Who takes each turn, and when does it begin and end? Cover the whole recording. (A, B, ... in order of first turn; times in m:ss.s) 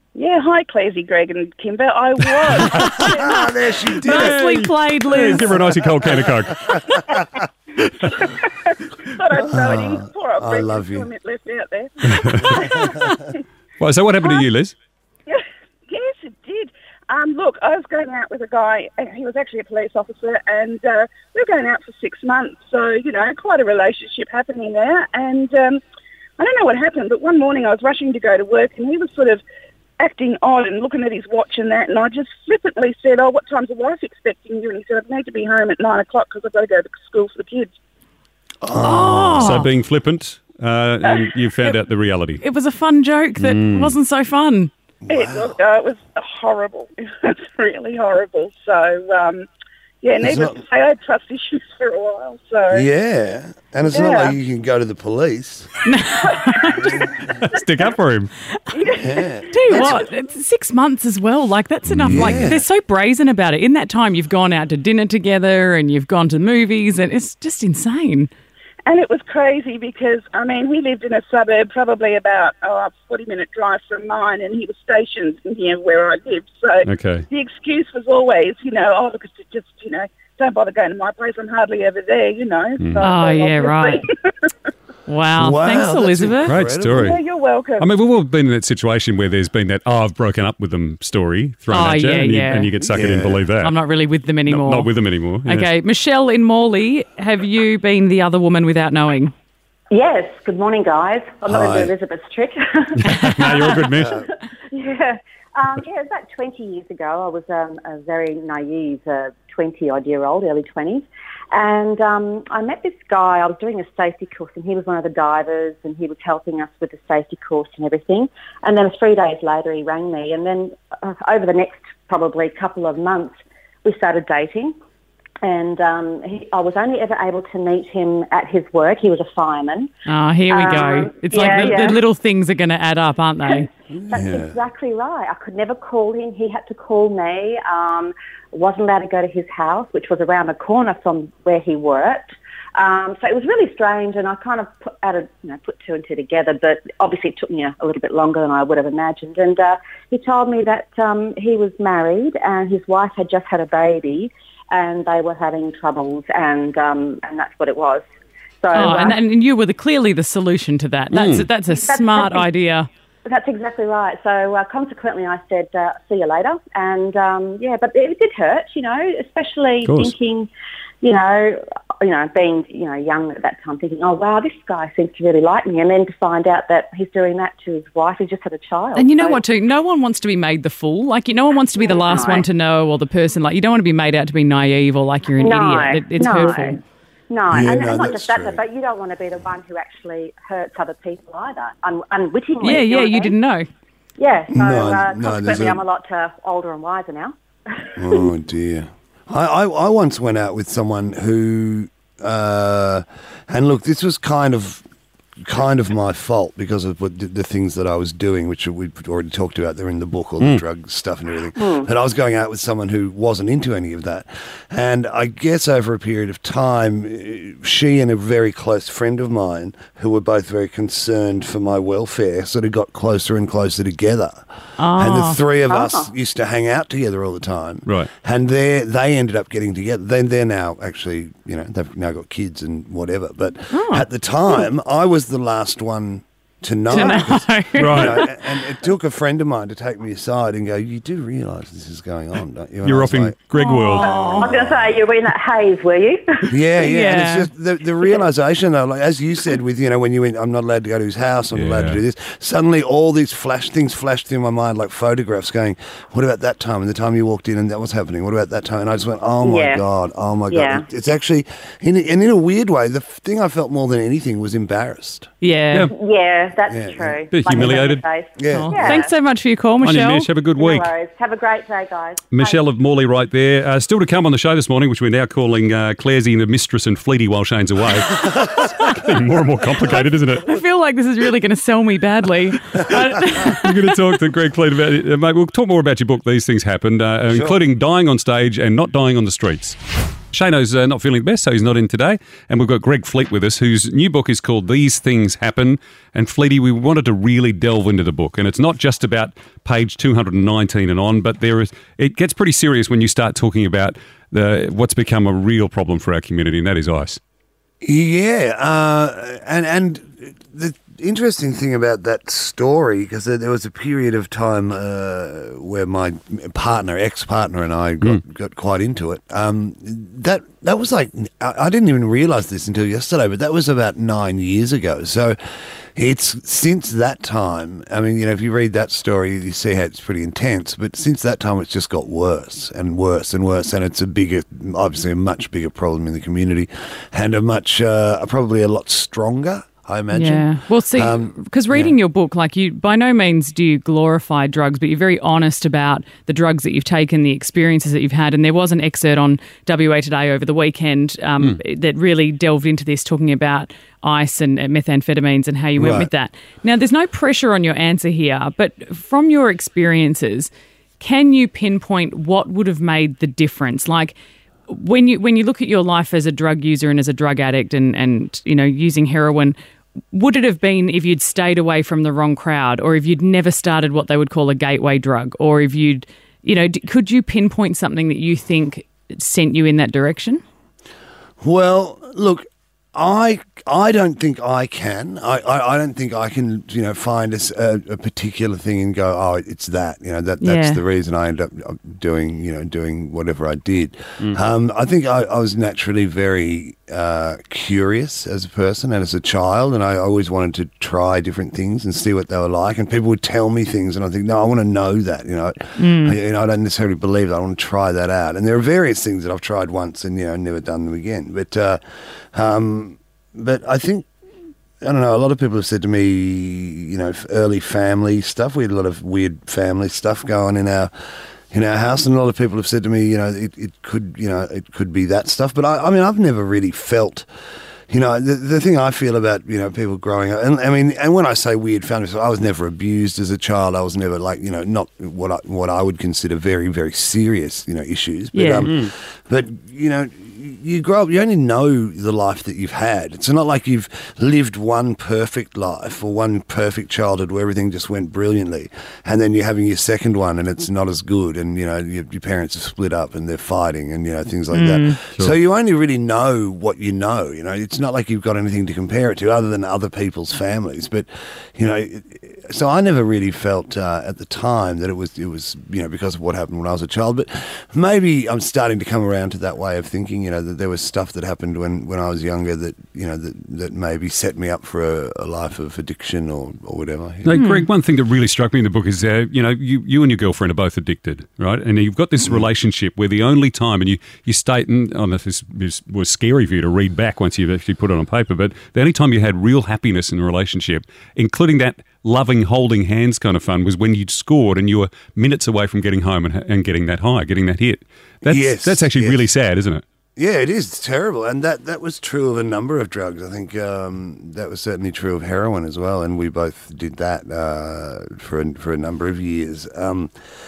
0:00.1-0:03.5 A
0:02.6-0:02.9 B
0:02.7-0:04.7 C
0:04.0-0:07.0 B
0:04.4-0:05.4 D
0:06.0-0:07.2 C
0:08.2-0:13.4 A
0:09.4-0:11.1 C
0:12.1-0:12.7 B
0:12.6-0:13.1 C
0:13.8-0:14.8 B
0:15.2-0:25.8 A
0:26.4-0:29.4 A
0:30.0-0:37.7 A
0:38.6-0:39.7 C
0:38.8-0:39.7 D
0:38.9-0:42.4 B
0:42.4-0:44.7 D
0:43.4-0:44.0 B
0:45.0-0:45.5 C
0:45.1-0:49.4 A
0:50.0-0:52.8 A
0:50.2-0:50.6 C
0:52.7-0:55.8 C
0:53.9-0:54.4 A
0:55.9-0:57.0 D
0:56.1-0:57.1 A
0:57.4-0:58.3 B
0:58.7-1:00.1 A
0:58.9-1:00.1 C
0:59.5-1:08.3 D
1:01.9-1:02.6 B
1:02.0-1:02.6 C
1:08.8-1:24.5 A
1:16.8-1:17.2 B
1:22.8-1:23.1 B
1:23.0-1:24.0 D
1:25.1-1:26.4 D
1:25.4-1:27.2 C
1:26.4-1:27.2 B
1:26.5-1:27.9 A
1:27.8-1:33.8 B
1:31.7-1:32.8 D
1:32.9-1:33.4 C
1:33.6-1:34.9 D
1:34.4-1:35.7 B
1:35.4-1:39.3 D
1:39.9-2:04.7 E
1:41.5-1:41.9 C
1:43.0-1:44.2 B
1:44.0-1:44.3 C
2:05.4-2:09.9 E
2:10.1-2:13.6 D
2:10.5-2:12.0 E
2:13.4-2:22.2 E
2:13.9-2:14.6 C
2:22.8-2:38.0 E
2:38.6-2:39.2 E
2:38.7-2:42.9 D
2:41.1-2:41.5 B
2:41.6-2:42.5 E
2:43.2-2:50.5 E
2:49.8-2:50.1 B
2:51.0-2:59.4 E
2:59.0-3:06.8 D
3:01.8-3:02.5 E
3:05.4-3:13.4 E
3:07.5-3:08.6 C
3:12.6-3:13.7 D
3:14.2-3:18.3 E
3:14.5-3:15.8 C
3:18.0-3:24.8 C
3:25.4-4:03.4 C
3:31.6-3:31.9 E
3:44.8-3:45.4 D
3:45.7-3:46.1 E
3:53.7-3:54.0 D
3:56.9-3:57.2 E
3:57.1-3:57.9 D
3:57.8-3:58.3 B
4:02.8-4:04.4 B
4:03.7-4:04.4 D
4:03.9-4:06.5 E
4:04.0-4:05.0 C
4:06.5-4:25.3 C
4:07.0-4:07.4 D
4:11.5-4:12.0 B
4:19.4-4:19.8 E
4:20.5-4:20.8 E
4:25.4-4:25.8 D
4:25.8-4:29.1 E
4:26.7-4:27.6 C
4:27.3-4:28.0 B
4:28.4-4:29.1 C
4:28.5-4:30.3 D
4:29.8-4:30.9 B
4:30.6-4:32.6 E
4:32.3-4:40.6 B
4:38.2-4:38.6 C
4:40.5-4:43.6 D
4:42.7-4:49.8 B
4:47.3-4:47.6 C
4:50.3-5:07.2 B
5:07.8-5:25.4 C
5:26.0-5:42.0 C
5:40.1-6:04.2 D
5:55.8-5:56.1 C
6:04.7-6:09.6 D
6:10.1-6:20.4 D
6:21.4-6:54.1 C
6:30.5-6:30.8 D
6:45.8-6:46.1 D
6:54.8-7:00.9 C
7:01.5-7:07.3 C
7:07.9-7:57.4 C
7:18.3-7:18.6 D
7:18.6-7:18.9 B
7:34.5-7:34.8 D
7:57.2-8:19.8 B
7:57.3-7:57.6 D
8:02.2-8:02.5 C
8:18.2-8:19.3 C
8:20.2-8:30.1 C